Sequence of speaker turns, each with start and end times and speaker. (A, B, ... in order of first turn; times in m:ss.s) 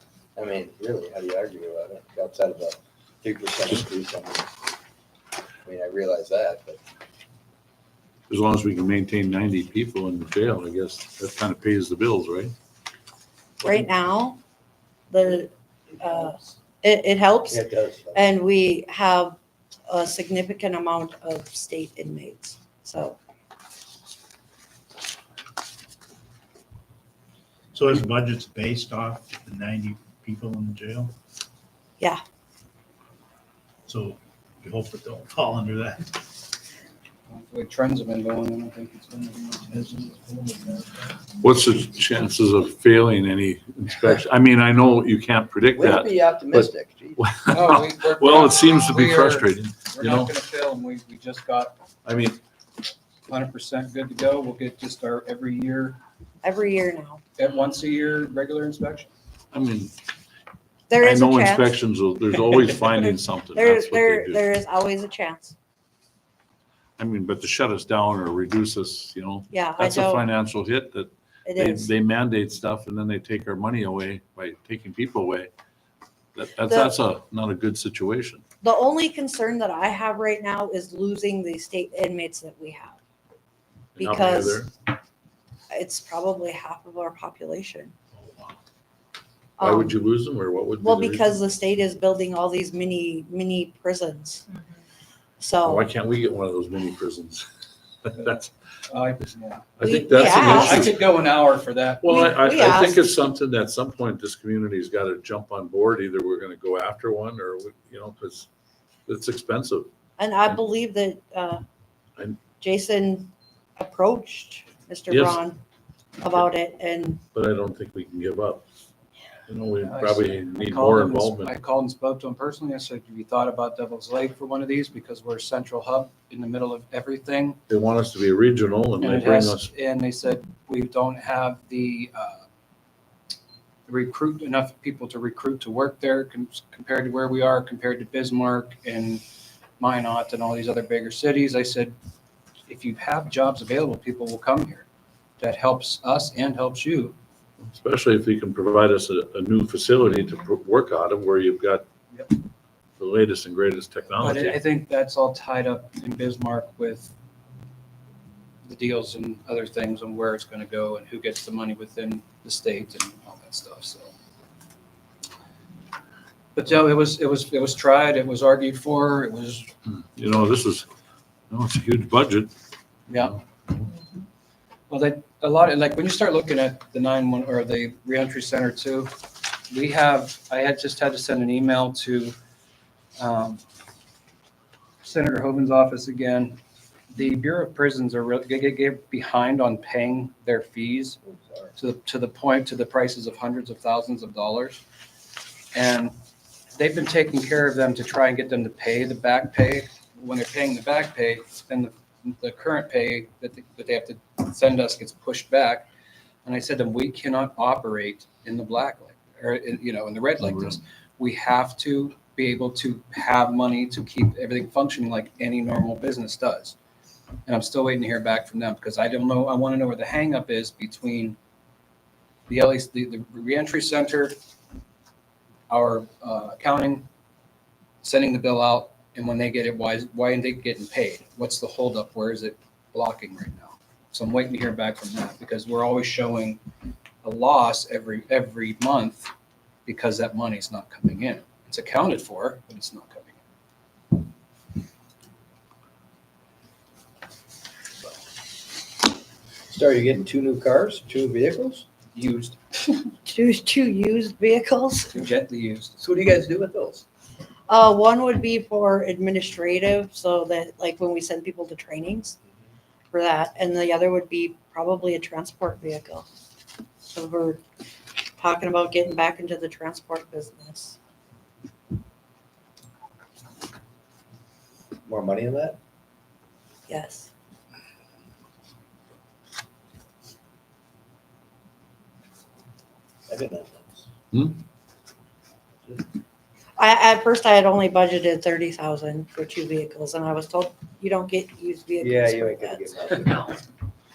0:00.4-0:04.5 A
0:05.6-0:06.8 A
0:08.3-0:12.5 B
0:13.6-0:14.4 C
0:15.1-0:17.6 C
0:17.5-0:18.3 A
0:18.1-0:23.2 C
0:27.7-0:31.1 D
0:33.9-0:36.2 D
0:37.3-0:39.8 E
0:39.7-0:41.2 D
0:41.4-0:50.3 B
0:45.7-0:47.2 A
0:47.5-0:51.7 E
0:52.0-0:52.4 B
0:53.3-0:56.0 E
0:56.4-0:57.2 C
0:57.4-0:59.1 E
0:59.5-0:59.9 B
1:00.9-1:01.8 C
1:01.0-1:04.4 B
1:02.3-1:05.5 C
1:07.0-1:15.5 B
1:09.5-1:10.3 C
1:11.4-1:11.9 C
1:16.3-1:18.4 B
1:16.5-1:16.9 C
1:18.6-1:23.0 C
1:24.0-1:24.7 C
1:24.0-1:24.7 B
1:25.7-1:27.9 C
1:29.6-1:30.0 C
1:29.6-1:31.4 B
1:30.8-1:34.5 C
1:35.4-1:35.9 C
1:35.6-1:37.4 B
1:38.0-1:38.4 B
1:38.1-1:39.7 E
1:39.8-1:41.1 B
1:39.8-1:40.9 C
1:40.4-1:42.4 E
1:42.0-1:48.5 B
1:42.1-1:43.2 C
1:49.1-1:49.9 B
1:50.2-1:51.6 C
1:52.6-1:55.6 C
1:55.1-1:55.4 B
1:56.2-1:57.2 C
1:57.3-1:58.6 B
1:59.5-2:01.5 B
1:59.8-2:07.6 E
2:07.7-2:09.7 B
2:09.0-2:12.4 E
2:13.9-2:19.2 E
2:19.8-2:22.0 E
2:22.7-2:24.9 E
2:25.4-2:27.2 E
2:27.6-2:31.8 B
2:33.0-2:34.6 B
2:34.2-2:37.1 E
2:38.6-2:44.1 E
2:46.6-2:49.7 E
2:49.8-2:50.8 B
2:51.5-2:52.5 B
2:53.1-2:53.4 E
2:53.2-2:53.9 B
2:54.9-2:59.2 E
2:59.7-3:02.3 E
3:03.2-3:03.6 E
3:05.0-3:06.6 E
3:07.1-3:11.2 E
3:11.3-3:11.7 A
3:11.8-3:14.8 E
3:15.7-3:16.2 E
3:16.7-3:25.9 E
3:26.4-3:36.8 E
3:37.4-3:41.4 E
3:42.5-3:44.4 E
3:45.7-3:47.1 E
3:48.0-3:56.6 E
3:57.2-3:59.3 E
3:59.8-4:03.4 E
4:09.7-4:11.9 A
4:12.1-4:13.0 E
4:13.2-4:15.2 C
4:15.1-4:16.1 E
4:16.0-4:17.0 A
4:17.7-4:22.4 C
4:23.1-4:26.3 C
4:27.1-4:27.6 C
4:28.4-4:31.0 C
4:35.0-4:35.8 A
4:36.9-4:37.3 C
4:43.3-4:44.0 A
4:44.3-4:44.6 B
4:46.8-4:52.9 C
4:52.0-4:53.5 A